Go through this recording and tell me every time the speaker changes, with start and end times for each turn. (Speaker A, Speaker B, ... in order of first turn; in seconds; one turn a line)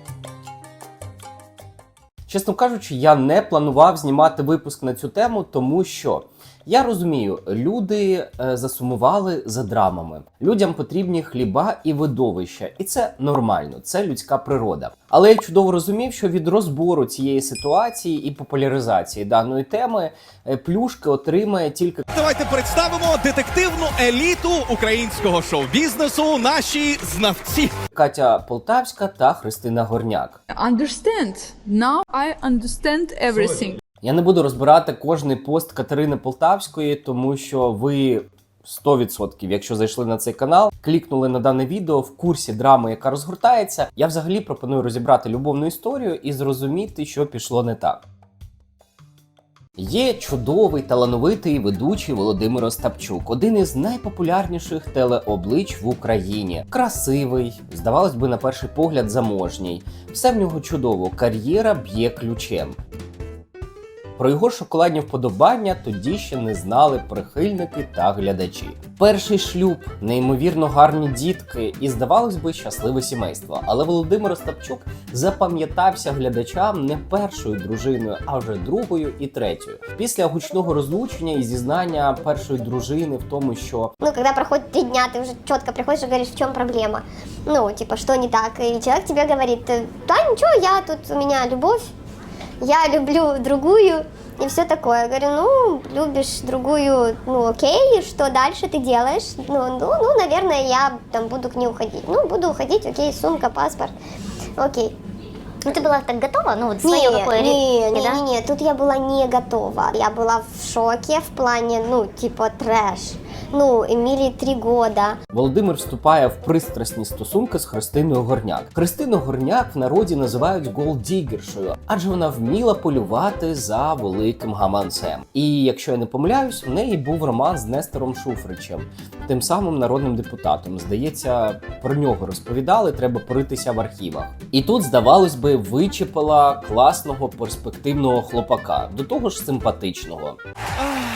Speaker A: 2.3-22.1
Speaker B: 22.1-27.7
Speaker A: 27.9-30.4
Speaker C: 30.6-33.8
Speaker A: 34.0-48.0
Speaker A: 49.8-62.8
Speaker A: 64.2-83.9
Speaker D: 84.0-91.9
Speaker D: 92.6-103.9
Speaker D: 104.6-104.9
Speaker E: 105.7-108.2
Speaker D: 106.8-115.2
Speaker A: 115.3-140.4